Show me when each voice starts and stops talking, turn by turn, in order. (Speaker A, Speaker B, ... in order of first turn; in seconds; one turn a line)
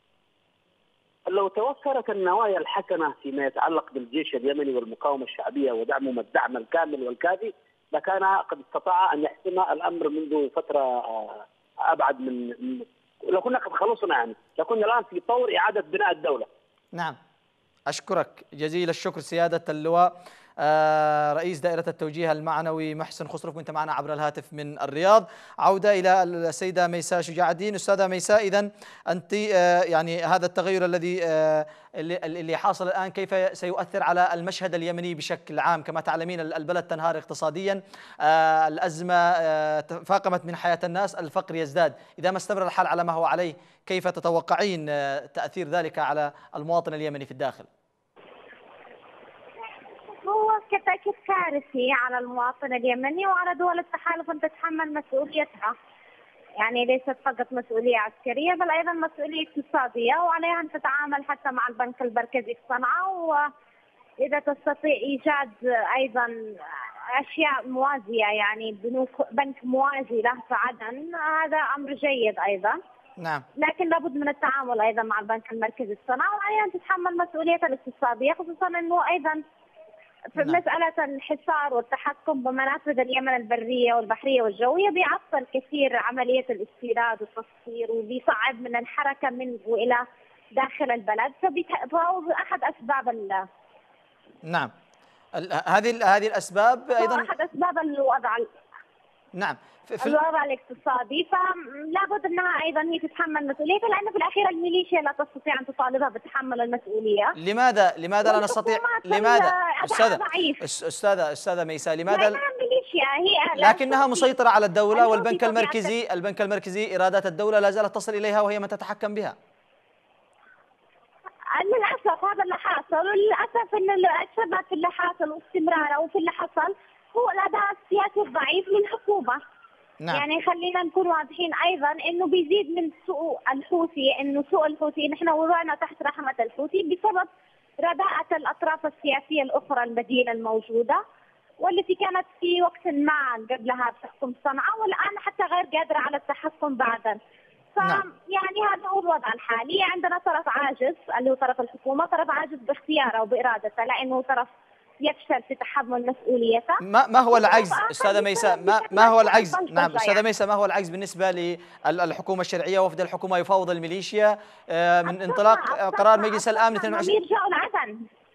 Speaker A: 1.3-16.5
Speaker B: 17.9-47.7
Speaker C: 50.0-55.7
Speaker C: 56.6-63.5
Speaker C: 64.2-72.8
Speaker B: 73.2-73.4
Speaker C: 73.6-79.4
Speaker C: 80.3-90.0
Speaker C: 90.5-93.4
Speaker B: 94.5-94.7
Speaker B: 95.3-97.3
Speaker C: 97.0-98.5
Speaker B: 99.3-100.2
Speaker C: 100.0-107.3
Speaker B: 107.4-112.4
Speaker C: 108.2-110.6
Speaker C: 112.1-114.3
Speaker B: 113.5-119.3
Speaker C: 114.9-115.9
Speaker C: 121.5-129.4
Speaker C: 130.1-137.3
Speaker C: 137.8-141.0
Speaker C: 141.6-147.2
Speaker C: 147.8-154.5
Speaker C: 155.0-160.2
Speaker B: 156.8-167.2
Speaker C: 165.1-168.0